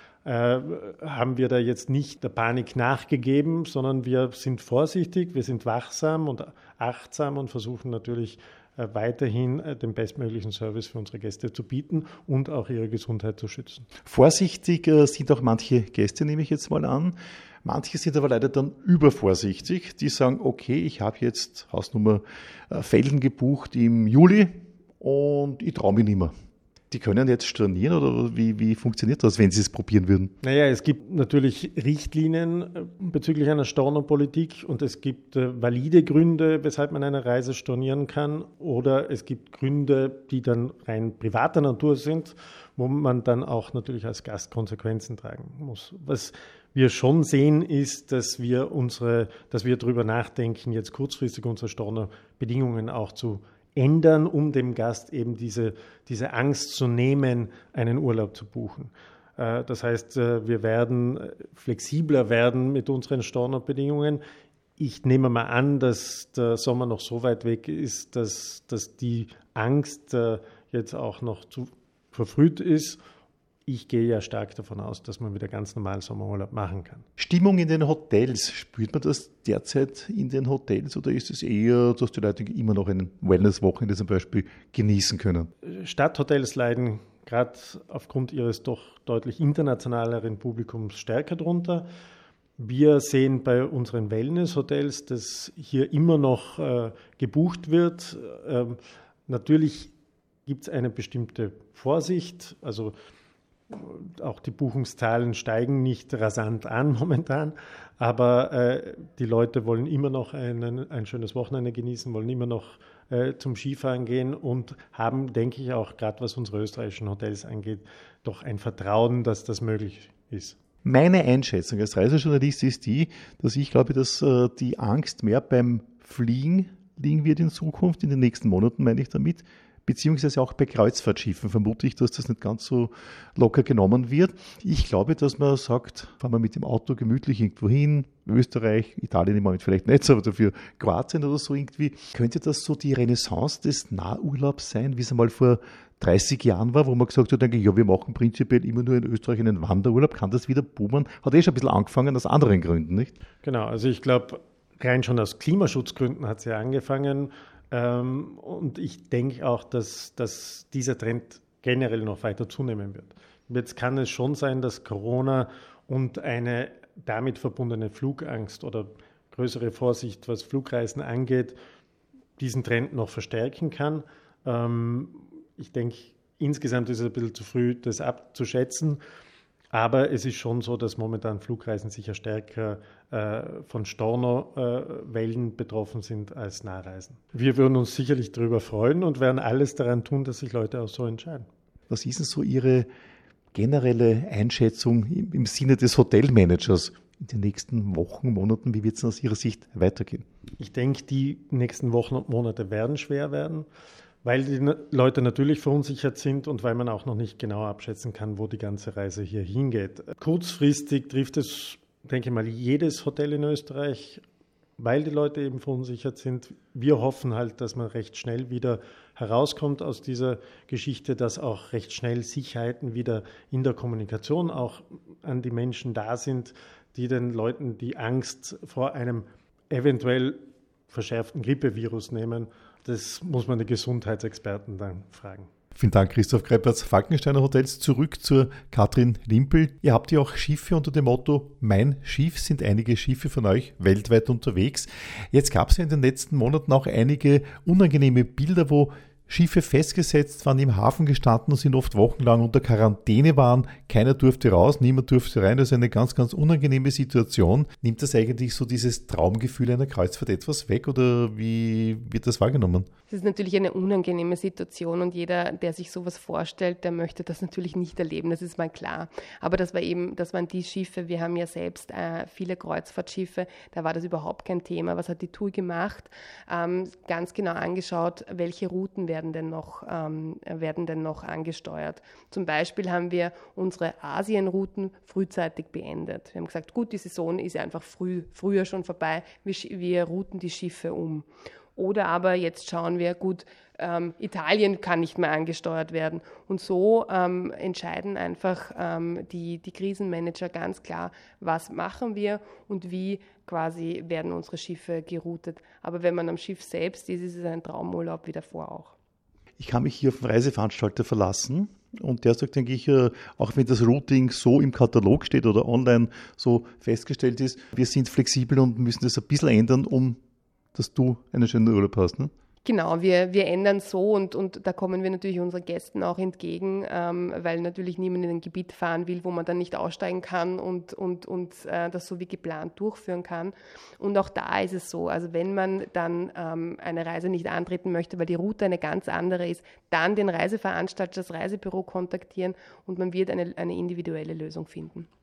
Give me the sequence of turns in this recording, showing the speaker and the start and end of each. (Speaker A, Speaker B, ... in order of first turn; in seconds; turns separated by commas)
Speaker A: 0.2-13.9, Speaker B: 14.0-26.3, Speaker B: 26.9-30.3, Speaker A: 30.4-64.2, Speaker A: 64.8-73.0, Speaker A: 73.7-77.0, Speaker B: 77.2-85.5, Speaker A: 85.6-91.8, Speaker A: 92.6-99.9, Speaker A: 100.5-102.9, Speaker A: 103.7-120.6, Speaker B: 120.8-153.1, Speaker A: 153.4-171.6, Speaker A: 172.4-179.0, Speaker A: 179.7-191.5, Speaker B: 191.9-192.9, Speaker B: 193.5-200.2, Speaker A: 200.6-203.7, Speaker A: 204.2-214.2, Speaker A: 214.8-235.5, Speaker B: 235.7-262.9, Speaker C: 263.1-308.9, Speaker B: 309.6-320.2, Speaker B: 320.7-322.3, Speaker C: 322.6-345.1